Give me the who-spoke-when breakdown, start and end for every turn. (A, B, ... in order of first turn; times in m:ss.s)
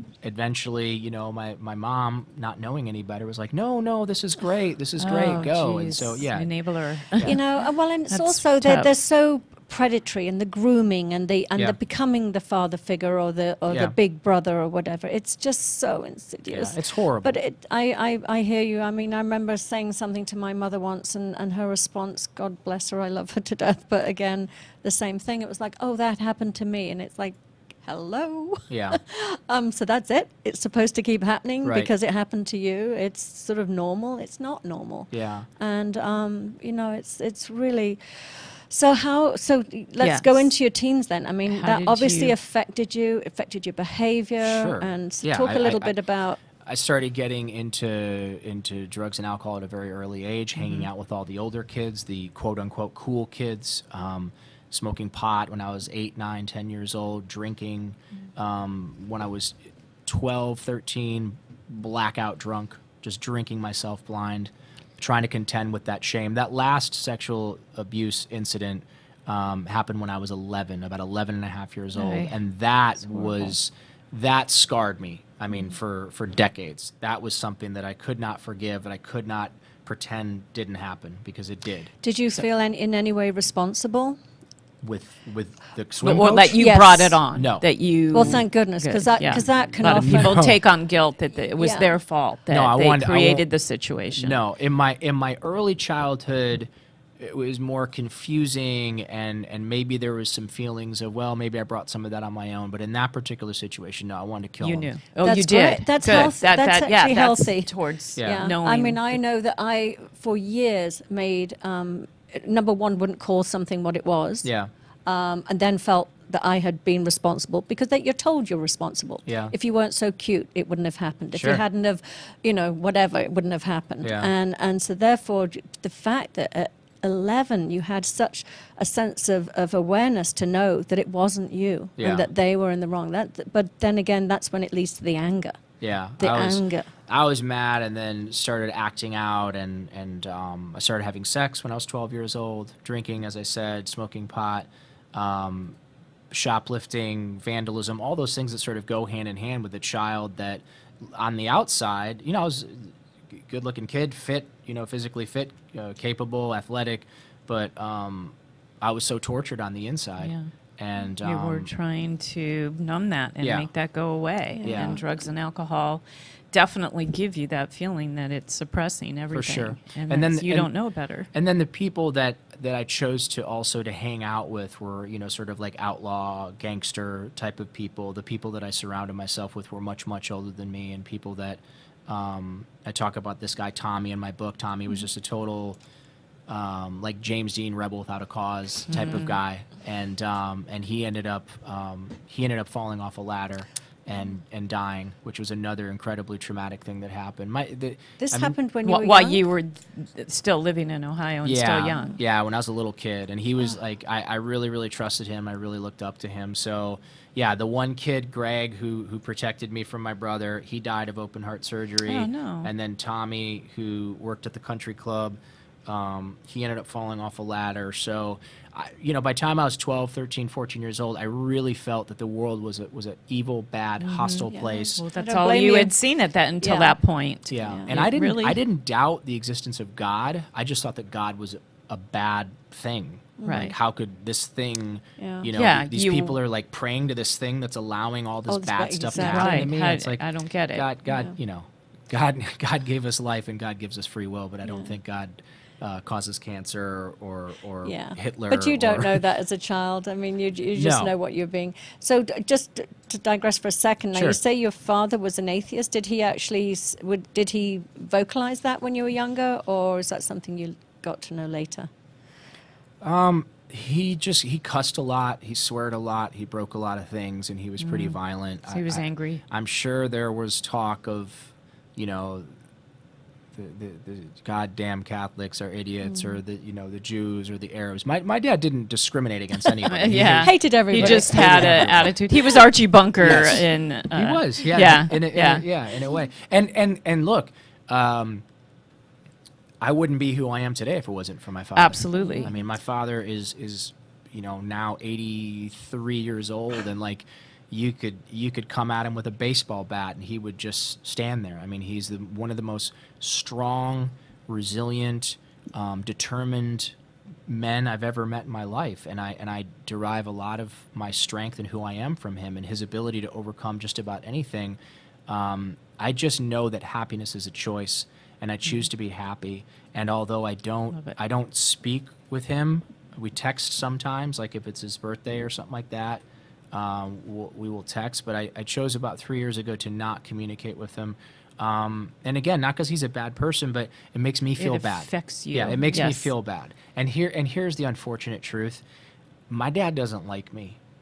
0:00.2-0:06.5 A
0:05.0-0:07.4 B
0:07.2-0:46.4 C
0:08.1-0:08.9 B
0:13.7-0:13.9 A
0:16.5-0:17.4 A
0:28.7-0:29.0 A
0:31.6-0:31.9 A
0:35.1-0:35.5 A
0:40.0-0:40.4 B
0:41.5-0:42.3 B
0:44.4-0:46.0 A
0:46.6-1:21.9 A
0:50.6-0:50.9 B
1:12.0-1:12.3 B
1:13.1-1:13.5 B
1:22.0-1:24.2 C
1:24.8-1:26.7 A
1:26.0-1:34.4 B
1:26.6-1:27.2 C
1:27.3-1:27.7 A
1:28.1-1:30.4 C
1:29.9-1:30.6 A
1:31.6-1:31.9 C
1:32.5-1:33.4 A
1:34.1-1:44.9 A
1:44.6-1:49.2 B
1:45.2-1:47.7 C
1:48.2-1:48.5 A
1:48.2-1:54.5 C
1:54.4-1:54.7 A
1:55.1-2:15.6 C
1:59.3-1:59.5 A
2:01.3-2:01.6 A
2:04.0-2:04.3 A
2:12.0-2:12.3 A
2:15.8-2:25.8 A
2:16.2-2:16.9 C
2:26.3-2:41.7 A
2:40.2-2:40.5 B
2:41.2-2:51.3 B
2:43.4-2:43.7 A
2:44.6-2:45.0 C
2:44.6-2:45.0 A
2:49.3-2:50.7 A
2:51.3-3:05.8 A
3:06.5-3:18.6 A
3:08.9-3:09.4 B
3:18.2-3:19.5 C
3:18.8-3:22.2 B
3:21.4-3:45.0 A
3:32.1-3:32.7 B
3:44.0-3:48.6 B
3:44.5-3:45.9 C
3:46.6-3:46.9 C
3:47.5-4:09.2 A
3:47.6-3:47.9 C
3:53.4-3:53.8 C
3:53.5-3:53.7 B
3:55.2-3:55.5 C
3:55.5-3:56.4 B
3:58.5-3:59.7 C
3:59.1-4:00.9 B
4:01.1-4:01.4 C
4:04.6-4:04.9 C
4:07.8-4:21.9 C
4:10.8-4:11.1 A
4:14.1-4:14.4 A
4:23.0-4:32.5 A
4:27.8-4:29.4 B
4:33.5-4:42.2 A
4:39.8-4:45.7 B
4:40.4-4:42.0 C
4:43.2-4:48.4 A
4:49.8-5:07.0 A
4:51.8-4:52.5 B
4:52.2-4:52.5 C
5:07.5-5:38.8 A
5:34.6-5:36.3 B
5:39.5-5:40.8 A